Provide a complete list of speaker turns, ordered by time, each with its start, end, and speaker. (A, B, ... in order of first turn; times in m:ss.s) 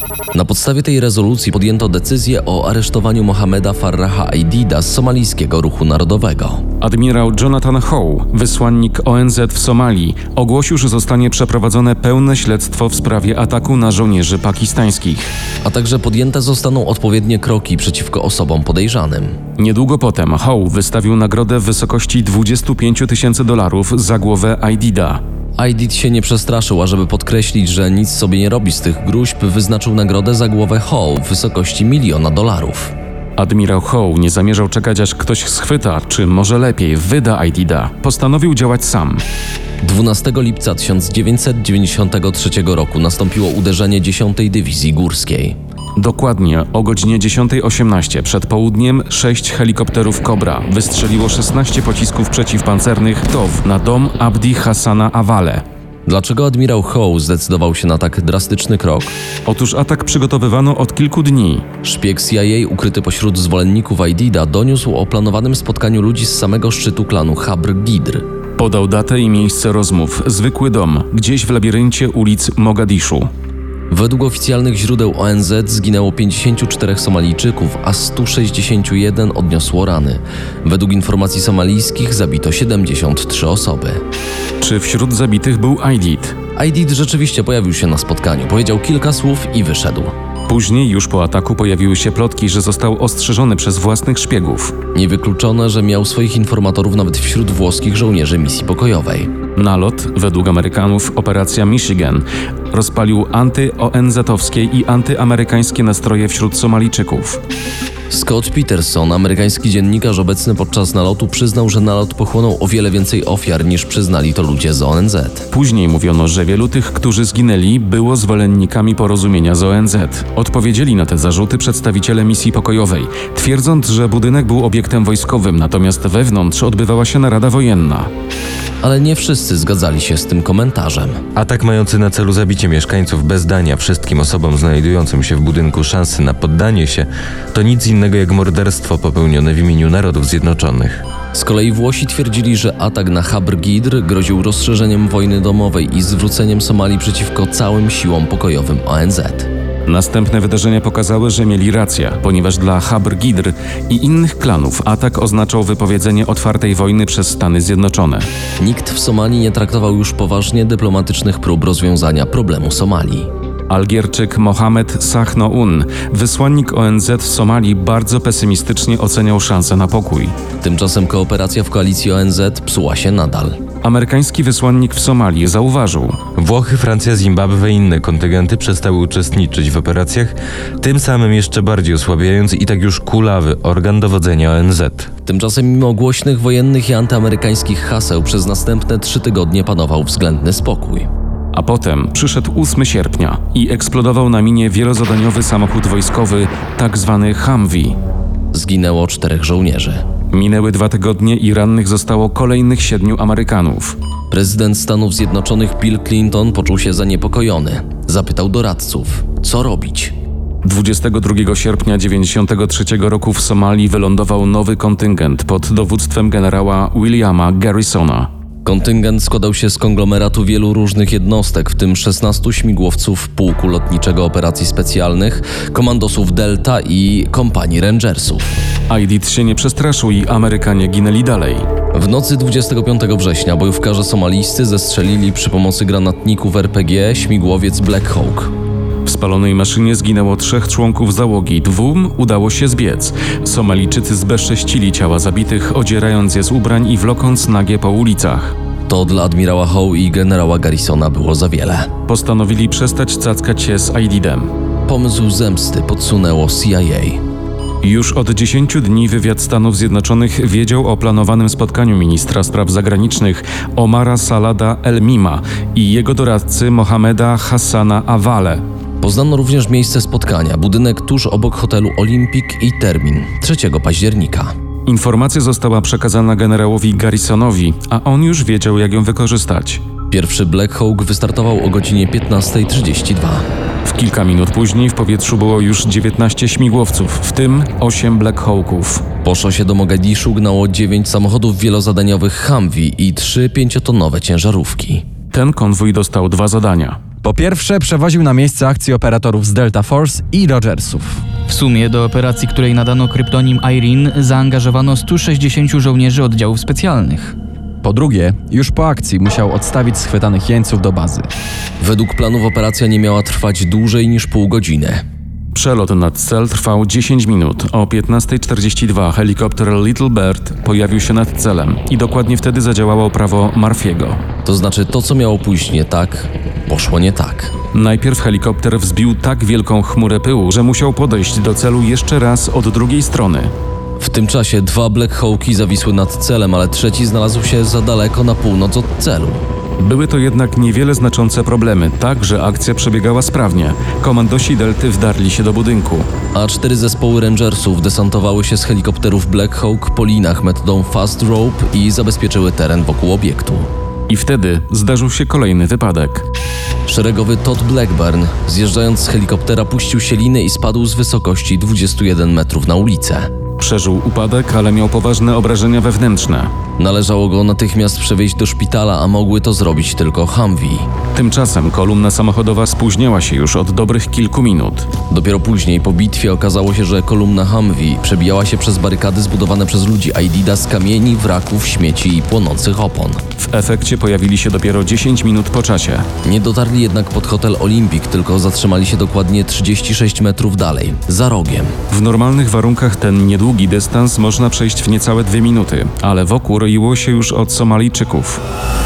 0:00.3-0:06.6 A
0:06.8-0:15.3 B
0:15.6-0:19.4 A
0:19.6-0:25.2 B
0:25.6-0:32.9 A
0:33.4-0:39.2 B
0:39.8-0:45.6 A
0:46.0-0:55.6 B
0:56.1-0:59.1 A
0:59.5-1:01.7 B
1:01.8-1:08.2 A
1:08.6-1:13.3 B
1:13.9-1:24.0 A
1:24.6-1:26.4 B
1:26.6-1:30.1 A
1:30.5-1:34.7 B
1:34.9-1:39.3 A
1:39.6-1:47.4 B
1:48.1-1:55.5 A
1:55.5-2:08.1 B
2:08.8-2:11.2 A
2:11.4-2:21.0 C
2:21.3-2:29.5 A
2:29.9-2:38.3 B
2:38.6-2:43.3 A
2:43.7-2:50.4 B
2:50.6-2:53.6 A
2:53.8-2:56.2 B
2:56.4-3:05.1 C
3:05.3-3:11.1 A
3:11.5-3:18.0 B
3:18.5-3:20.0 A
3:20.3-3:24.0 B
3:24.3-3:30.2 A
3:30.6-3:38.3 B
3:38.6-3:48.6 A
3:48.9-3:51.7 B
3:52.0-3:58.5 A
3:59.1-4:08.6 B
4:08.9-4:11.9 A
4:12.1-4:14.5 B
4:14.9-4:17.2 A
4:17.8-4:28.6 B
4:29.0-4:34.5 A
4:34.9-4:39.8 B
4:40.1-4:43.4 A
4:43.8-4:49.0 B
4:49.2-4:55.1 A
4:55.3-4:57.0 B
4:57.2-5:01.2 D
5:01.5-5:07.4 E
5:07.8-5:11.3 D
5:11.8-5:15.0 A
5:15.5-5:24.2 B
5:24.4-5:27.5 A
5:27.7-5:33.5 B
5:34.0-5:39.4 A
5:39.8-5:46.1 B
5:46.3-5:53.7 A
5:54.1-5:56.3 B
5:56.9-6:03.3 A
6:03.6-6:06.5 B
6:06.8-6:10.9 A
6:11.2-6:14.9 B
6:15.1-6:23.2 A
6:23.4-6:26.1 B
6:26.2-6:31.8 A
6:31.9-6:38.4 B